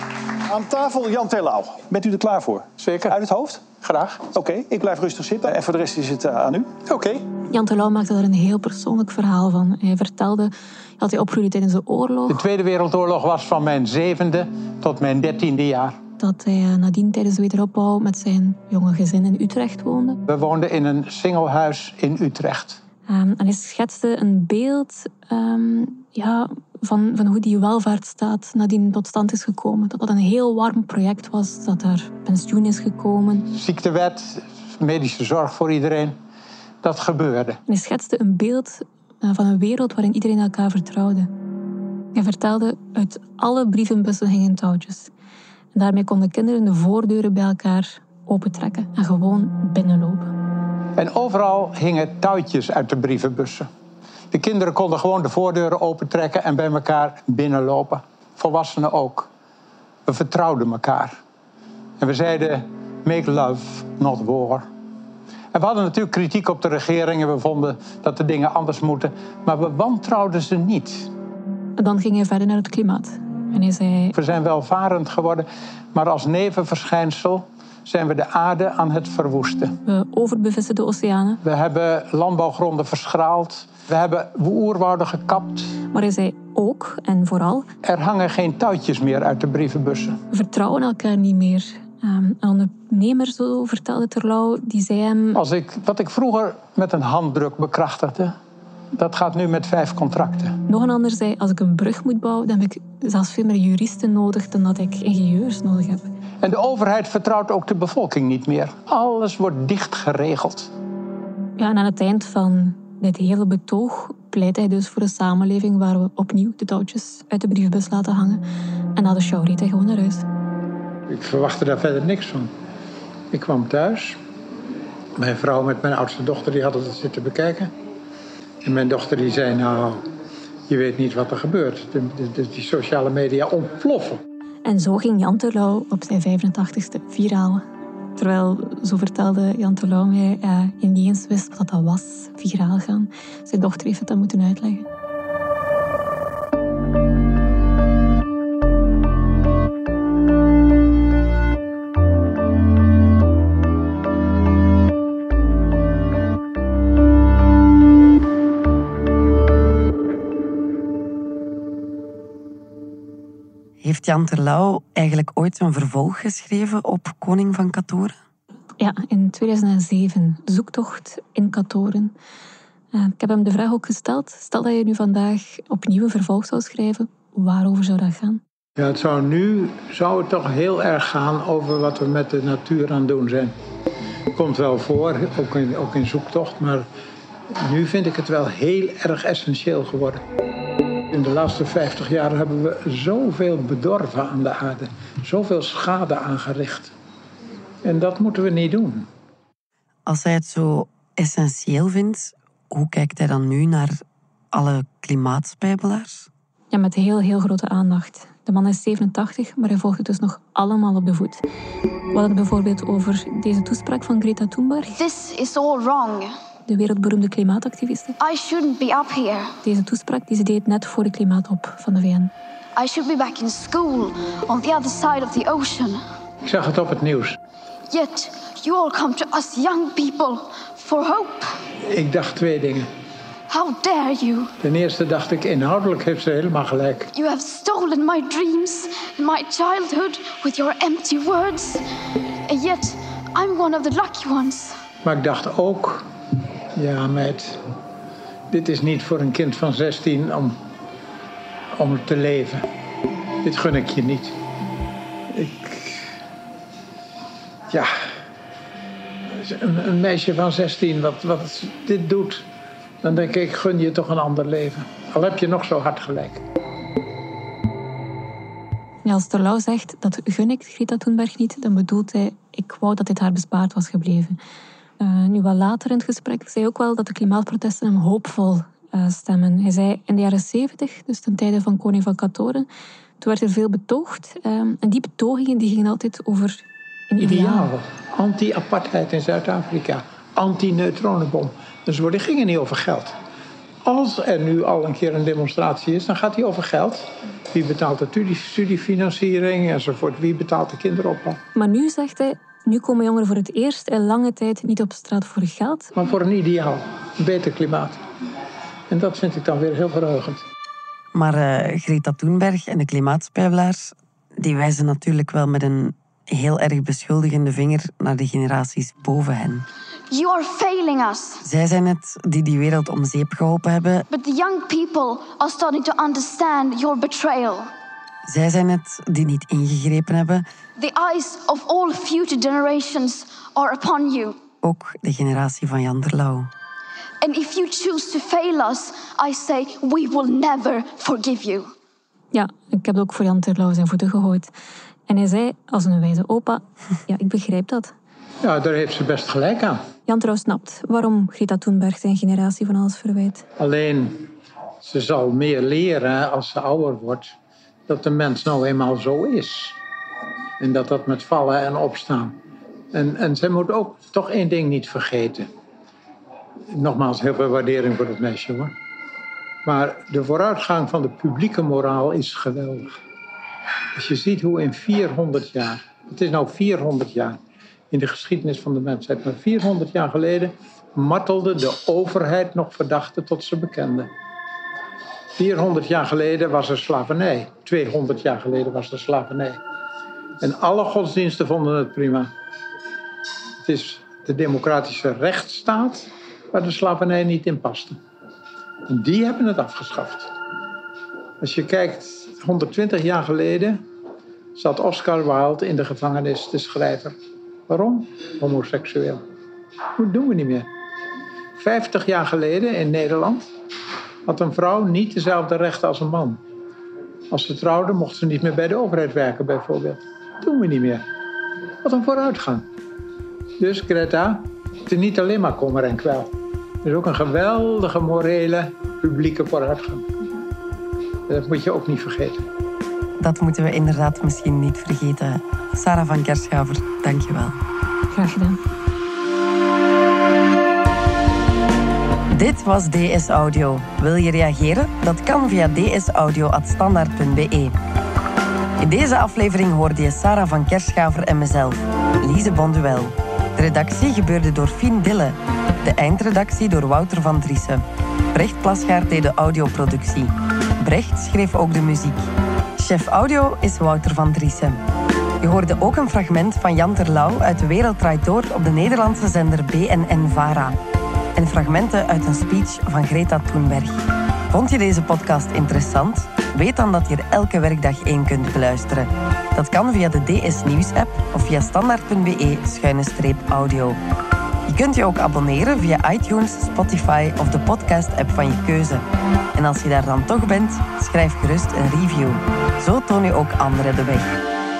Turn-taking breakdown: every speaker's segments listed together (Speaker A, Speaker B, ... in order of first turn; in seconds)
Speaker A: 0.5-7.2
Speaker B: 2.8-3.2, 3.9-4.2, 12.3-16.0, 20.3-22.8, 33.5-36.2, 36.8-37.6, 51.0-53.7, 54.3-59.3, 60.0-61.2, 62.0-64.7, 65.5-71.1, 74.2-79.8, 81.5-85.7, 87.8-90.2, 95.4-98.4, 98.9-100.6, 106.4-110.7, 121.1-122.5, 123.3-124.2, 125.2-127.7, 128.6-130.0, 130.7-134.2, 178.8-183.5, 184.3-186.9, 187.5-190.2, 191.1-196.9, 197.8-199.1, 226.4-227.4, 231.8-232.9, 234.6-237.1, 245.0-246.1, 246.7-247.6, 248.5-250.6, 251.8-252.7, 253.4-254.4, 255.3-256.2, 259.3-262.5, 263.0-266.4, 287.2-293.1, 293.8-301.4, 305.9-308.0, 308.9-310.4, 348.4-349.8, 353.6-354.3, 354.8-357.4, 357.9-359.8, 360.6-362.4, 362.9-365.5, 366.7-368.7, 369.6-373.0, 373.9-377.4, 377.9-384.1, 385.4-389.6, 390.4-392.3, 393.6-398.0, 398.9-400.3, 401.4-403.8, 404.5-407.2, 407.7-409.2, 410.0-410.7, 411.6-413.5, 414.2-416.4, 417.3-421.1, 421.8-422.6, 423.6-426.3, 426.8-430.0, 431.3-432.5
Speaker C: 7.5-12.4, 16.2-20.2, 23.1-33.5, 37.7-41.3, 42.1-45.1, 45.7-50.3, 71.8-74.2, 79.8-81.4, 85.9-87.7, 90.3-95.4, 100.7-106.0, 111.6-118.4, 118.9-120.2, 134.6-137.6, 138.2-144.8, 168.8-172.1, 172.9-178.4, 206.7-211.4, 212.1-215.0, 216.7-218.2, 219.6-222.3, 269.0-274.4, 275.0-282.7, 283.2-287.7, 301.5-305.9, 342.3-344.5, 345.1-347.9, 350.1-353.4, 438.1-438.6
Speaker D: 163.8-168.2, 200.1-204.0, 204.5-206.3, 311.1-319.7, 321.4-324.1, 328.2-330.4, 334.6-336.5, 433.2-437.6, 442.3-447.7, 448.8-464.8, 465.4-470.8, 471.3-484.0, 484.6-494.3
Speaker E: 214.9-216.3, 218.2-219.5, 222.8-226.0, 227.9-231.5, 233.5-234.5, 237.1-241.8, 242.5-244.8, 320.1-321.4, 324.1-327.7, 330.8-334.4, 337.2-341.7